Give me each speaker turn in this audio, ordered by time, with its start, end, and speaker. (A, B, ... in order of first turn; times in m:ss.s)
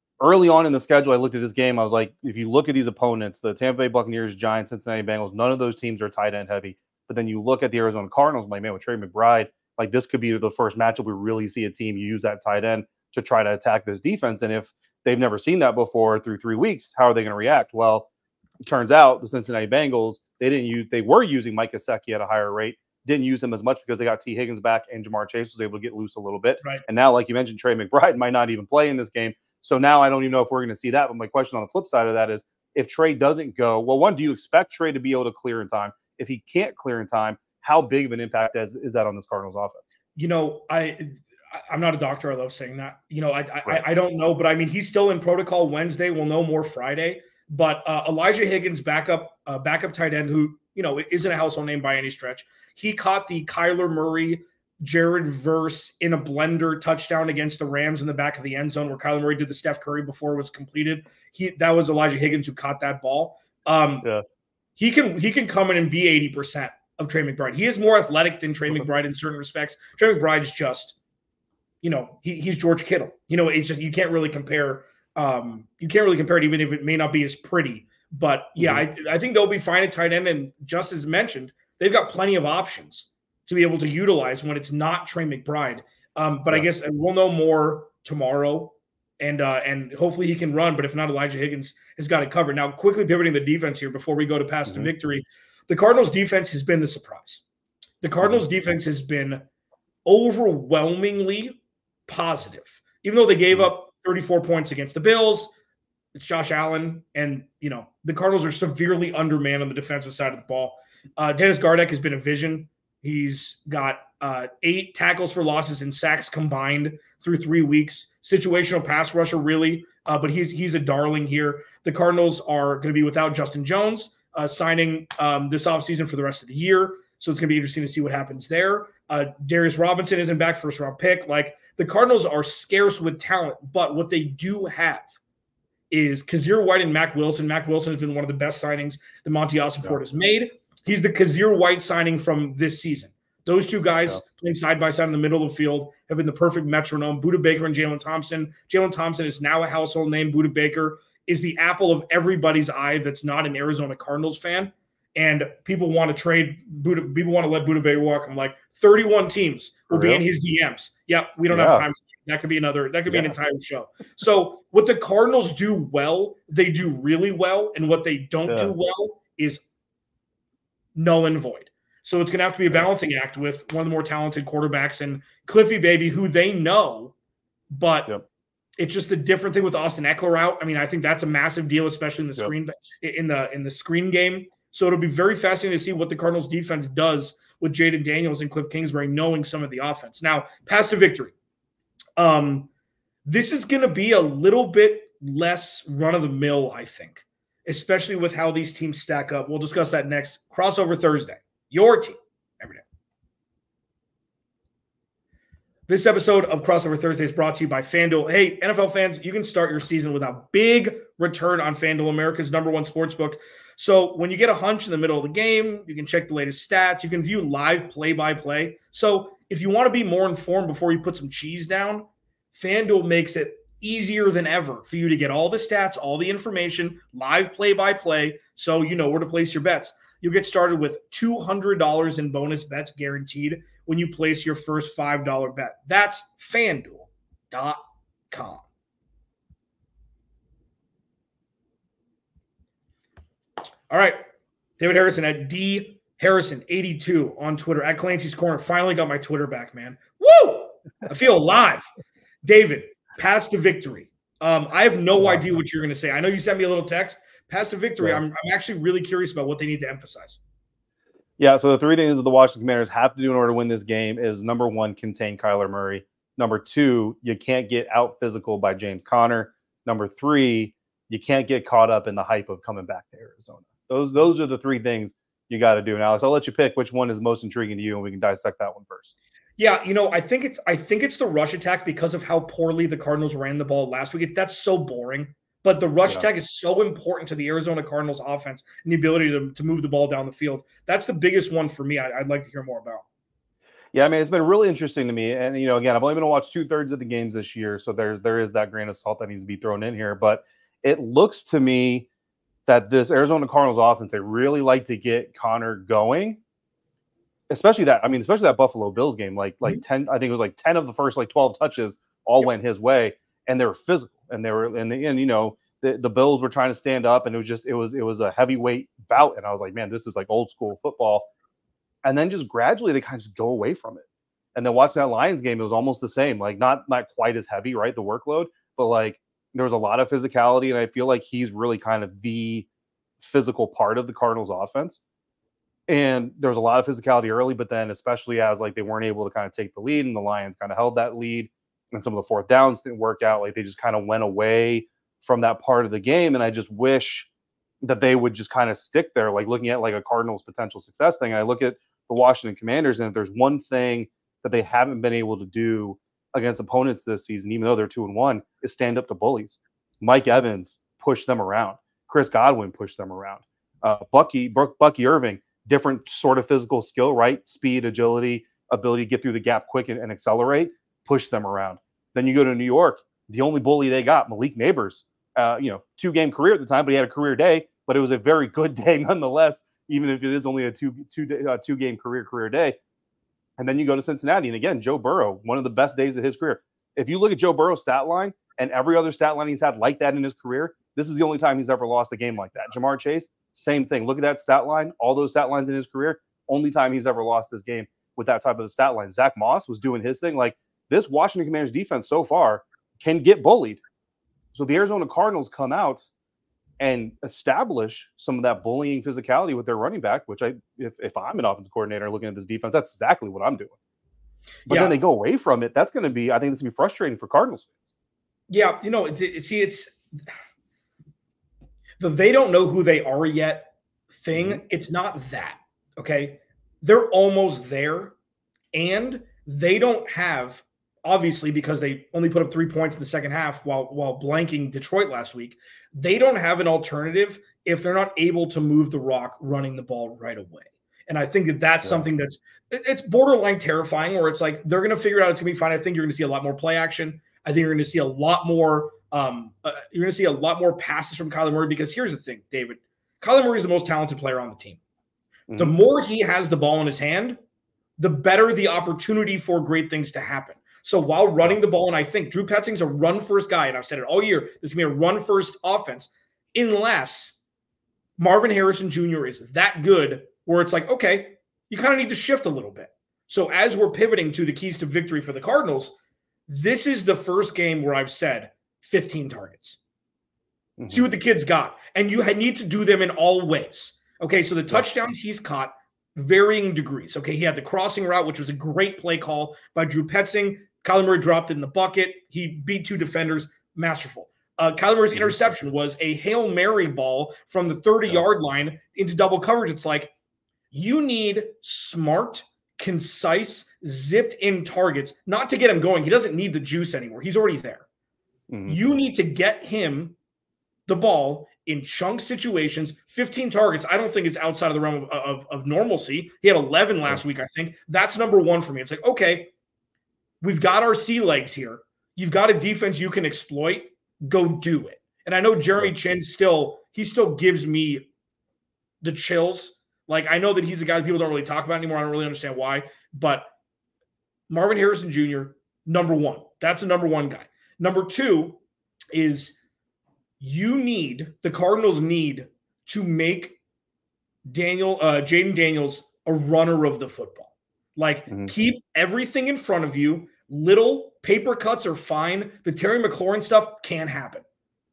0:00.2-0:18.1 A
0:18.6-0:39.9 A
0:40.2-1:04.1 B
1:04.8-1:11.0 B
1:11.8-1:37.4 B
1:18.6-1:18.8 A
1:38.0-1:39.4 B
1:40.1-1:45.5 B
1:46.1-2:15.1 B
2:15.9-2:49.6 B
2:39.9-2:40.2 A
2:41.5-2:41.8 A
2:43.1-2:43.3 A
2:48.5-2:48.7 A
2:50.9-2:57.1 B
2:57.7-2:58.1 B
2:58.8-3:11.3 B
3:12.2-3:12.7 B
3:13.3-3:22.8 B
3:25.9-3:58.6 B
4:03.9-4:04.2 B
4:04.8-4:11.9 B
4:12.4-4:20.4 B
4:15.2-4:15.4 A
4:21.4-4:39.1 A
4:39.6-4:53.0 B
4:53.9-5:02.1 A
5:02.7-5:06.4 A
5:07.5-5:21.3 A
5:22.0-5:32.7 A
5:33.2-5:35.0 A
5:35.9-5:47.3 A
5:47.8-6:22.8 A
6:23.6-6:43.8 A
6:44.5-6:46.1 A
6:46.8-6:53.7 A
6:54.6-6:54.9 B
6:54.7-6:57.9 A
6:58.5-7:00.0 B
7:02.0-7:08.1 B
7:04.3-7:04.6 A
7:08.7-7:34.8 B
7:35.5-7:35.7 A
7:35.6-7:37.4 B
7:38.0-7:47.4 B
7:48.2-7:55.9 B
7:56.5-7:59.8 B
8:00.8-8:01.0 A
8:00.9-8:20.1 B
8:20.7-8:27.8 B
8:28.5-8:28.8 A
8:28.6-8:30.2 B
8:30.9-8:39.5 B
8:40.4-8:48.1 B
8:49.0-8:53.5 B
8:54.5-8:58.6 B
8:59.1-8:59.6 B
9:00.4-9:03.6 B
9:04.5-9:14.4 B